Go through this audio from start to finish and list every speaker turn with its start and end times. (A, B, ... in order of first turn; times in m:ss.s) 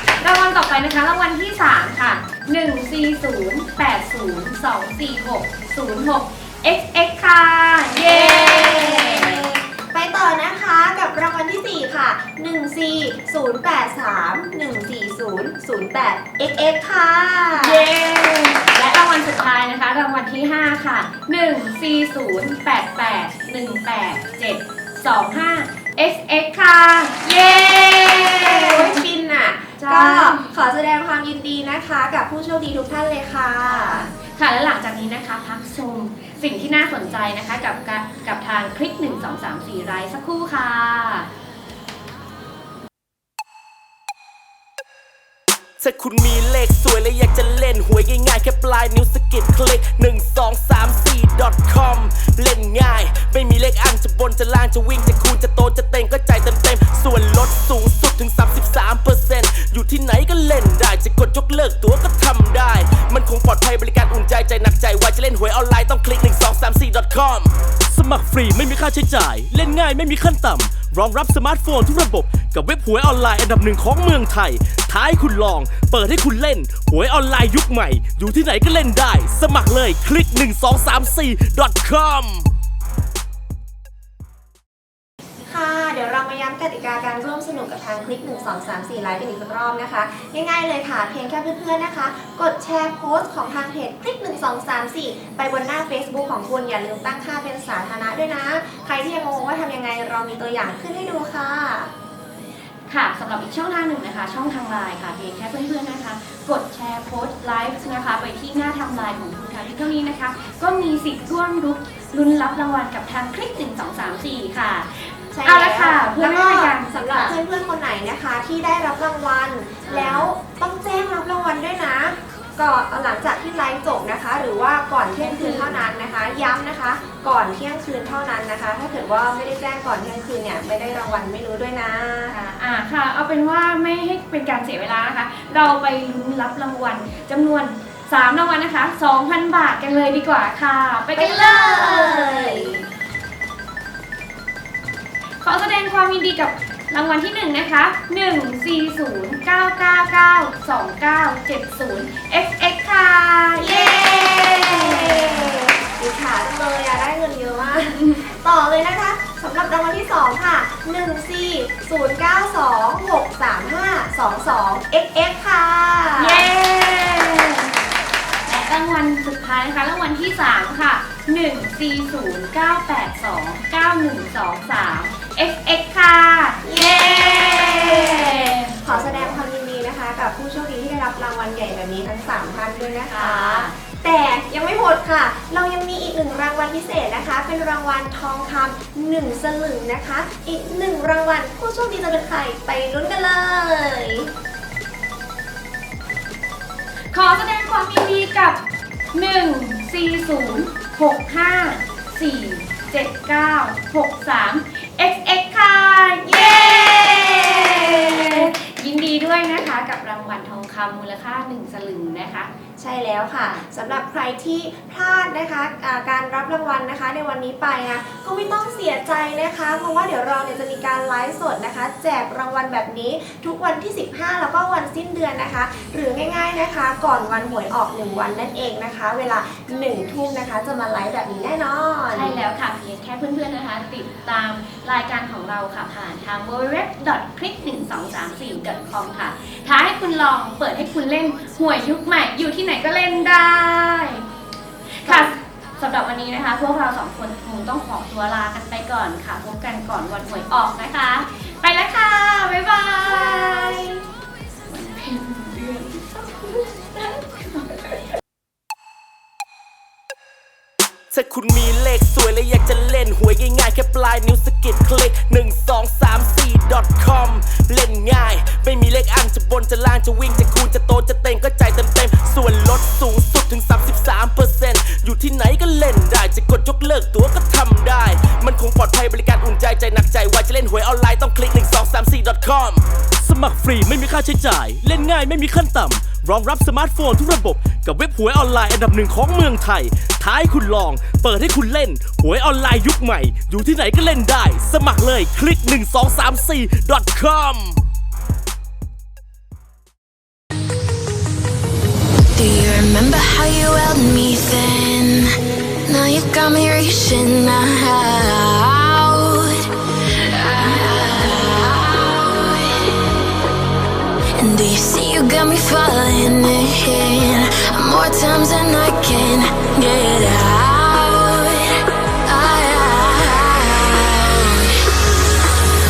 0:00.2-0:09.5 A
0:08.0-0:17.9 B
0:17.6-0:29.0 A
0:27.9-0:34.1 B
0:29.8-0:30.4 A
0:33.6-0:41.3 A
0:45.8-1:07.5 C
1:07.9-1:22.5 D
1:25.5-1:41.9 B
1:42.9-1:57.4 A
1:55.3-2:12.4 B
1:59.9-2:00.3 A
2:05.2-2:05.9 A
2:12.3-2:22.8 A
2:21.2-2:22.8 B
2:25.4-2:35.5 A
2:33.6-2:46.5 B
2:46.2-2:47.7 A
2:48.5-2:59.4 A
2:56.6-3:14.3 B
3:03.1-3:03.7 A
3:17.1-3:18.6 A
3:19.1-3:32.5 A
3:26.3-3:28.5 B
3:32.8-3:52.4 B
3:52.1-4:04.2 A
4:05.0-4:14.0 A
4:05.0-4:05.4 B
4:13.1-4:13.9 B
4:14.7-4:18.0 A
4:21.1-4:42.8 C
4:43.2-4:57.9 D
5:02.3-5:09.7 E
5:10.2-5:12.9 E
5:14.4-5:24.8 E